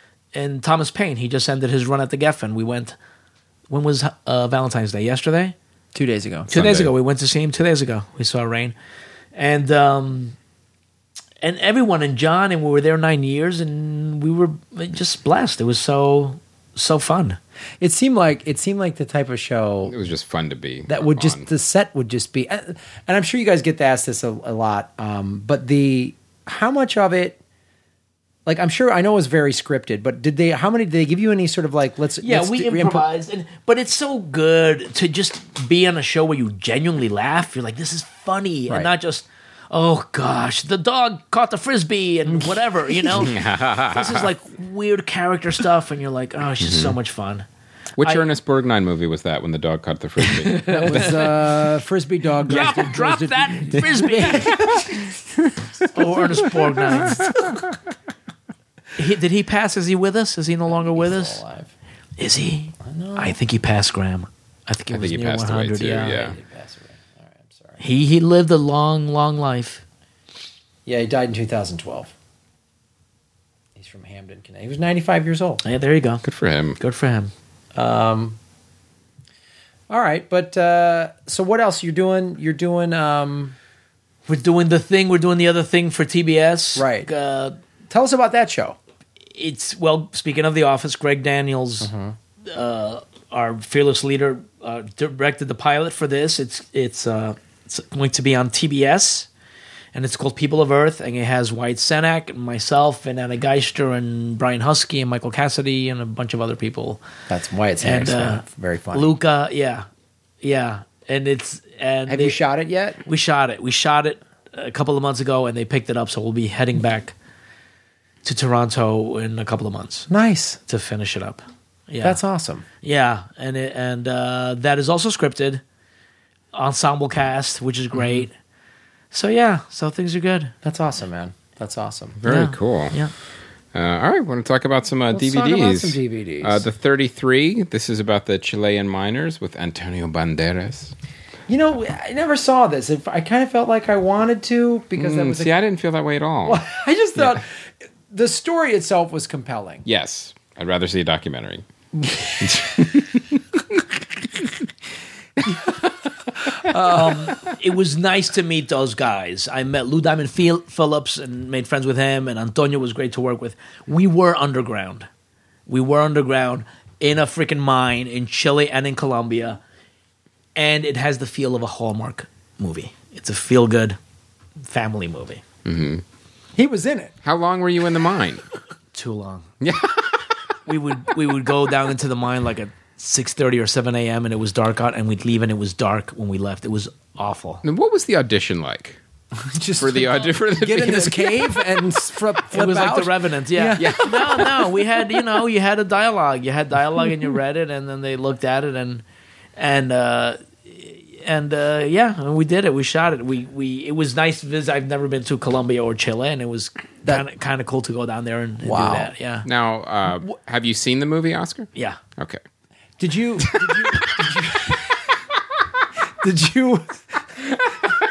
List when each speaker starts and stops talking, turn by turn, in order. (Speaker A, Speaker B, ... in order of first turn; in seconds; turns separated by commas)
Speaker A: 0.3-3.0, Speaker A: 3.7-5.5, Speaker B: 6.0-6.5, Speaker C: 6.5-6.9, Speaker A: 6.5-8.7, Speaker A: 9.3-10.3, Speaker A: 11.4-17.4, Speaker B: 17.8-19.9, Speaker C: 19.9-21.5, Speaker B: 20.9-27.4, Speaker B: 28.5-33.0, Speaker A: 32.2-47.5, Speaker B: 42.3-43.3, Speaker C: 43.2-44.3, Speaker C: 46.6-47.0, Speaker C: 48.0-51.3, Speaker A: 50.2-51.1, Speaker B: 50.6-55.1, Speaker A: 52.5-54.7, Speaker A: 55.9-57.4, Speaker A: 59.0-61.4, Speaker B: 60.7-61.7, Speaker A: 62.2-66.3, Speaker B: 62.8-63.4, Speaker C: 64.9-66.4, Speaker B: 66.2-67.8, Speaker A: 67.8-69.8, Speaker B: 70.9-72.1, Speaker B: 73.8-75.6, Speaker A: 75.6-76.2, Speaker C: 76.2-76.8, Speaker A: 76.8-77.3, Speaker B: 77.8-78.4, Speaker B: 79.9-83.5, Speaker A: 84.3-87.6, Speaker B: 86.8-87.1, Speaker B: 87.9-88.8, Speaker A: 89.3-91.9, Speaker B: 91.8-92.2, Speaker A: 92.5-99.3, Speaker A: 99.9-107.0, Speaker B: 107.3-109.1, Speaker A: 107.8-109.9, Speaker A: 110.4-112.4, Speaker B: 112.1-113.0, Speaker A: 113.0-117.1, Speaker A: 118.2-120.1, Speaker B: 120.1-120.6, Speaker A: 120.7-122.2, Speaker B: 122.0-122.7, Speaker A: 122.8-125.6, Speaker A: 126.5-128.3, Speaker A: 129.1-130.6, Speaker B: 130.6-132.2, Speaker C: 132.2-133.0, Speaker A: 132.3-133.1, Speaker C: 133.7-140.9, Speaker B: 135.1-136.7, Speaker B: 141.5-145.5, Speaker C: 145.0-146.7, Speaker B: 146.4-147.5, Speaker B: 148.1-149.8, Speaker C: 149.8-151.6, Speaker B: 152.1-152.7, Speaker C: 152.4-153.4, Speaker C: 155.4-155.7, Speaker B: 156.4-157.4, Speaker A: 156.8-165.1, Speaker A: 165.7-169.6, Speaker A: 170.6-174.0, Speaker A: 174.6-175.4, Speaker C: 175.7-176.0, Speaker B: 176.6-177.1, Speaker C: 177.2-178.4, Speaker A: 178.9-179.5, Speaker C: 179.6-180.3, Speaker A: 180.7-187.6, Speaker C: 187.6-189.0, Speaker B: 189.4-194.7, Speaker C: 189.8-191.5, Speaker A: 192.5-199.0, Speaker C: 193.8-194.6, Speaker A: 199.6-209.5, Speaker B: 208.6-209.1, Speaker C: 209.4-212.4, Speaker B: 213.0-214.9, Speaker C: 213.4-214.0, Speaker B: 216.2-217.6